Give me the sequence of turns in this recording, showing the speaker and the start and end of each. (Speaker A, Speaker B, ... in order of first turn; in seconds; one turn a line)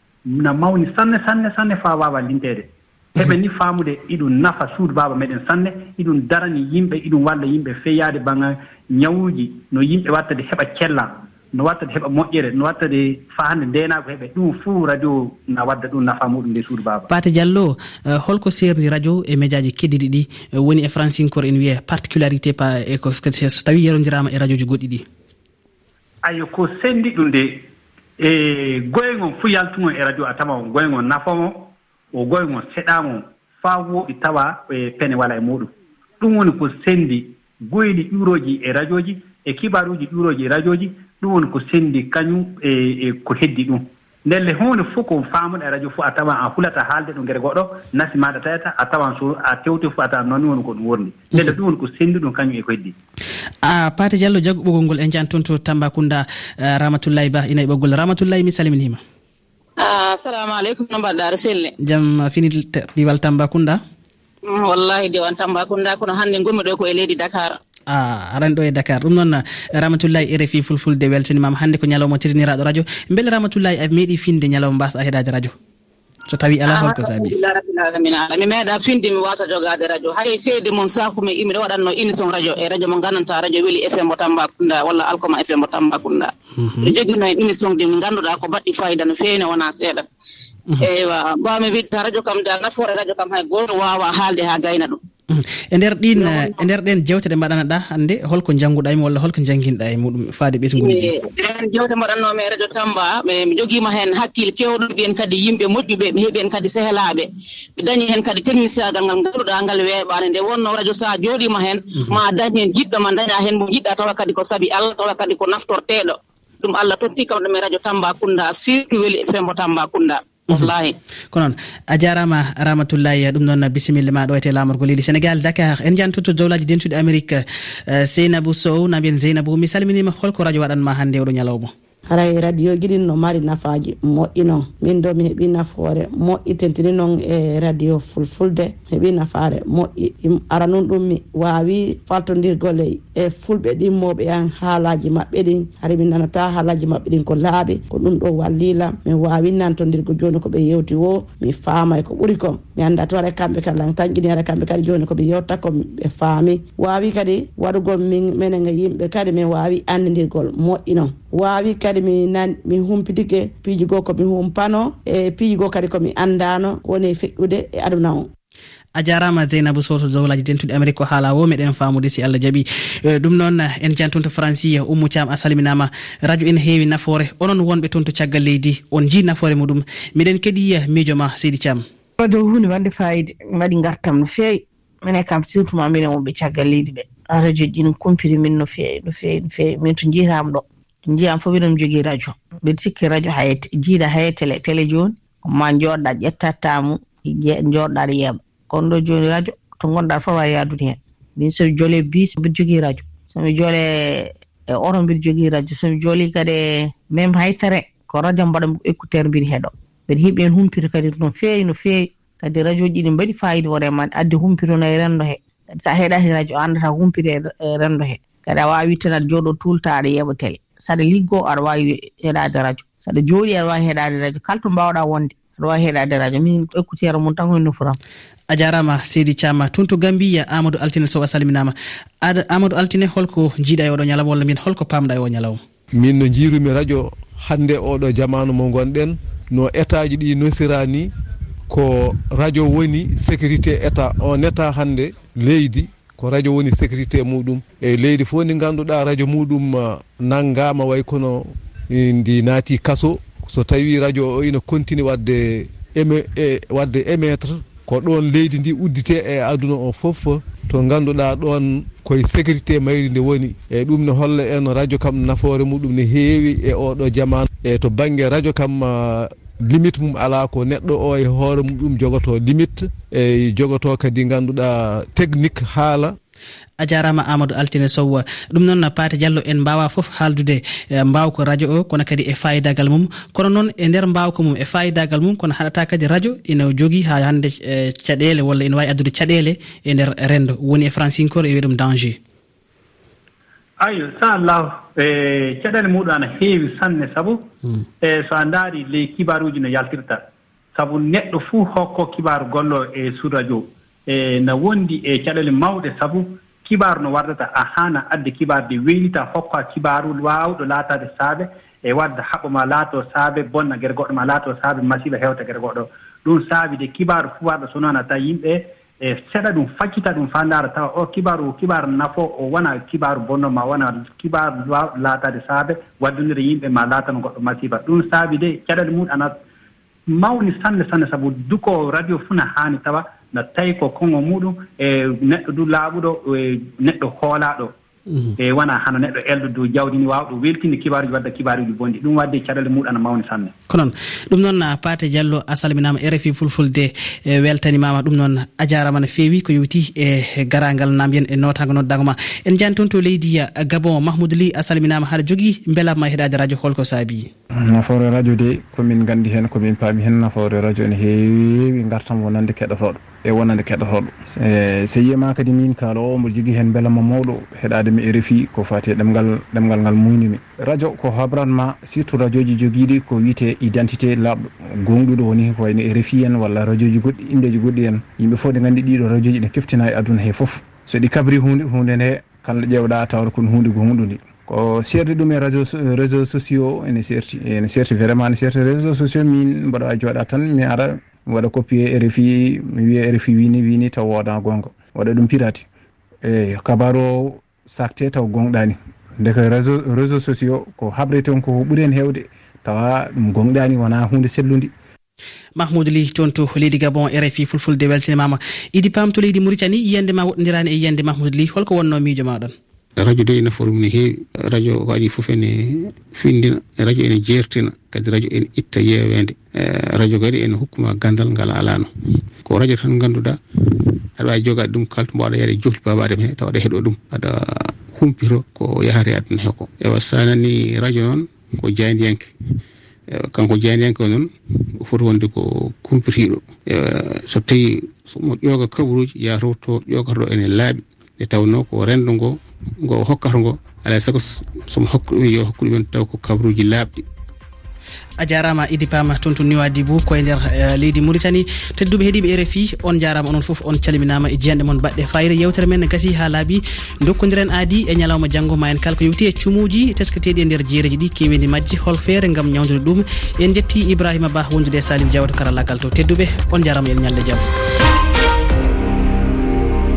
Speaker A: 0.3-17.1
Speaker B: 17.1-25.1
Speaker A: 26.2-27.7
Speaker A: 28.2-53.0
Speaker B: 53.6-59.0
Speaker C: 59.8-61.7
Speaker B: 61.8-63.8
Speaker C: 64.4-67.6
Speaker B: 67.9-75.5
Speaker B: 76.3-77.4
Speaker C: 76.6-90.1
Speaker B: 86.6-86.9
Speaker C: 90.8-95.0
Speaker B: 95.3-101.1
Speaker C: 96.1-96.7
Speaker C: 100.8-121.0
Speaker B: 121.3-131.7
Speaker D: 132.1-168.3
Speaker B: 169.0-181.8
Speaker E: 182.2-228.0
Speaker B: 228.5-235.6
Speaker F: 235.9-241.1
Speaker F: 241.7-276.2
Speaker B: 276.8-292.2
Speaker A: 293.8-297.4
Speaker A: 298.0-300.2
Speaker A: 300.8-329.3
Speaker A: 330.1-337.7
Speaker A: 338.4-343.5
Speaker B: 343.7-357.3
Speaker G: 357.6-395.7
Speaker G: 396.2-404.7
Speaker B: 405.6-412.5
Speaker H: 413.0-421.9
Speaker H: 422.4-423.4
Speaker H: 424.2-432.3
Speaker H: 433.1-434.3
Speaker H: 434.8-447.0
Speaker B: 448.2-467.5